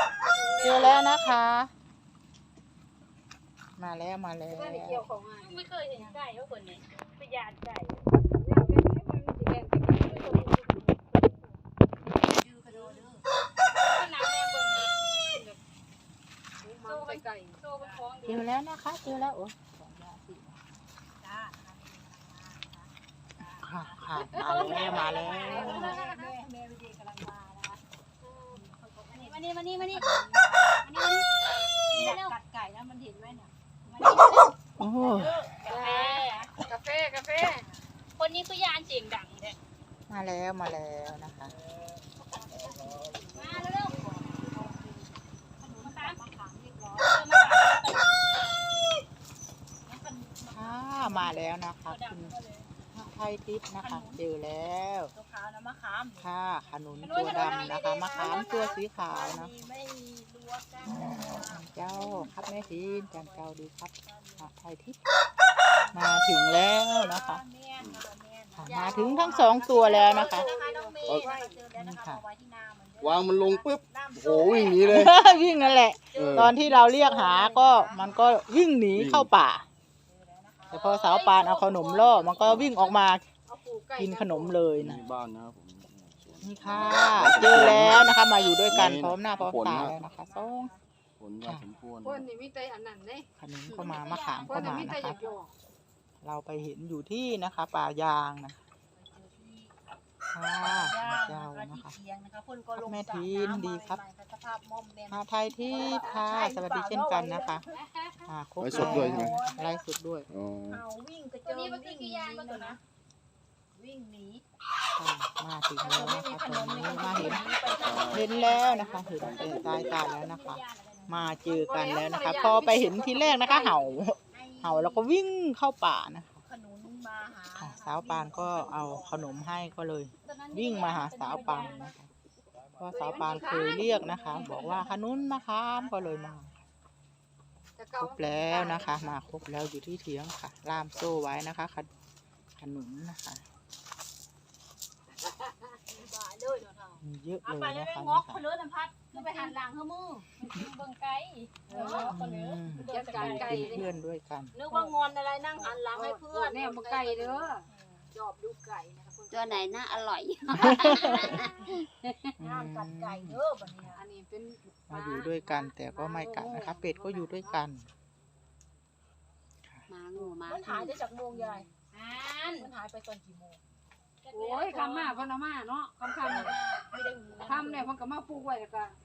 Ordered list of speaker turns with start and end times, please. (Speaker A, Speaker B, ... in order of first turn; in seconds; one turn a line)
Speaker A: 0.2-1.1
Speaker B: 0.6-1.7
Speaker B: 3.8-5.0
Speaker A: 4.5-5.6
Speaker C: 5.4-6.8
Speaker D: 7.2-8.2
Speaker A: 8.2-10.5
Speaker D: 10.0-11.3
Speaker D: 12.0-13.2
Speaker C: 12.7-13.0
Speaker C: 13.8-14.9
Speaker A: 15.2-15.6
Speaker A: 16.6-17.6
Speaker D: 16.6-17.1
Speaker C: 16.9-18.5
Speaker B: 18.2-20.6
Speaker D: 21.2-30.8
Speaker B: 23.6-26.0
Speaker E: 24.4-25.2
Speaker A: 25.2-26.3
Speaker C: 25.5-26.1
Speaker C: 29.1-30.1
Speaker C: 30.8-31.3
Speaker C: 31.9-32.3
Speaker D: 31.9-34.3
Speaker C: 33.9-34.5
Speaker B: 34.8-35.4
Speaker D: 34.9-36.5
Speaker C: 35.6-36.5
Speaker A: 35.7-36.0
Speaker A: 36.6-37.7
Speaker C: 38.1-39.5
Speaker B: 40.1-41.5
Speaker D: 42.2-47.4
Speaker C: 43.3-44.1
Speaker C: 45.8-46.2
Speaker C: 47.0-48.5
Speaker D: 49.9-52.7
Speaker B: 50.5-52.4
Speaker B: 52.9-55.1
Speaker D: 53.8-54.2
Speaker D: 55.1-63.5
Speaker B: 56.2-59.5
Speaker C: 57.0-58.8
Speaker B: 60.8-65.0
Speaker D: 64.0-64.5
Speaker D: 65.7-78.5
Speaker B: 65.9-67.4
Speaker E: 67.8-68.0
Speaker B: 68.5-70.5
Speaker A: 69.8-71.6
Speaker C: 70.0-70.4
Speaker B: 71.8-72.2
Speaker E: 73.0-75.2
Speaker B: 74.8-79.7
Speaker E: 76.2-76.5
Speaker E: 78.0-78.4
Speaker E: 78.9-79.3
Speaker D: 80.0-82.5
Speaker B: 80.7-83.3
Speaker C: 80.7-83.1
Speaker E: 82.4-82.8
Speaker A: 83.5-84.6
Speaker B: 84.0-85.0
Speaker E: 84.7-90.0
Speaker B: 86.4-90.7
Speaker D: 89.2-90.8
Speaker E: 91.2-92.3
Speaker B: 91.4-91.7
Speaker A: 92.0-93.3
Speaker B: 93.4-95.2
Speaker C: 93.7-95.2
Speaker A: 94.5-95.5
Speaker B: 96.2-98.6
Speaker D: 98.9-99.7
Speaker B: 100.3-102.0
Speaker D: 100.6-107.8
Speaker B: 102.8-104.0
Speaker B: 105.1-107.6
Speaker C: 107.7-108.3
Speaker B: 108.3-110.3
Speaker E: 108.6-109.4
Speaker D: 108.7-109.8
Speaker E: 110.3-110.8
Speaker D: 110.7-112.8
Speaker C: 111.4-112.8
Speaker D: 113.7-114.4
Speaker B: 114.9-117.5
Speaker D: 115.8-119.5
Speaker C: 117.1-121.2
Speaker E: 117.6-120.1
Speaker B: 118.0-126.4
Speaker A: 121.2-123.8
Speaker D: 124.3-125.1
Speaker D: 126.4-129.8
Speaker B: 127.5-132.1
Speaker C: 130.2-131.9
Speaker D: 131.2-131.9
Speaker B: 132.8-136.5
Speaker D: 132.9-136.4
Speaker A: 137.8-139.2
Speaker B: 138.0-141.9
Speaker B: 142.6-143.4
Speaker D: 145.2-150.3
Speaker B: 147.0-148.4
Speaker C: 149.1-149.6
Speaker C: 150.4-152.3
Speaker D: 151.7-154.0
Speaker B: 151.8-154.7
Speaker A: 152.7-153.9
Speaker D: 154.5-157.6
Speaker A: 155.6-157.7
Speaker D: 158.1-160.1
Speaker F: 159.3-161.9
Speaker B: 160.5-161.5
Speaker D: 160.6-161.5
Speaker C: 161.0-161.3
Speaker B: 162.4-163.9
Speaker D: 162.4-164.0
Speaker A: 163.9-167.6
Speaker B: 164.9-167.9
Speaker F: 169.9-171.0
Speaker D: 170.1-171.7
Speaker C: 171.9-172.7
Speaker D: 172.4-173.6
Speaker C: 174.2-175.3
Speaker A: 174.3-176.6
Speaker D: 176.3-177.9
Speaker C: 176.3-176.9
Speaker A: 177.4-179.0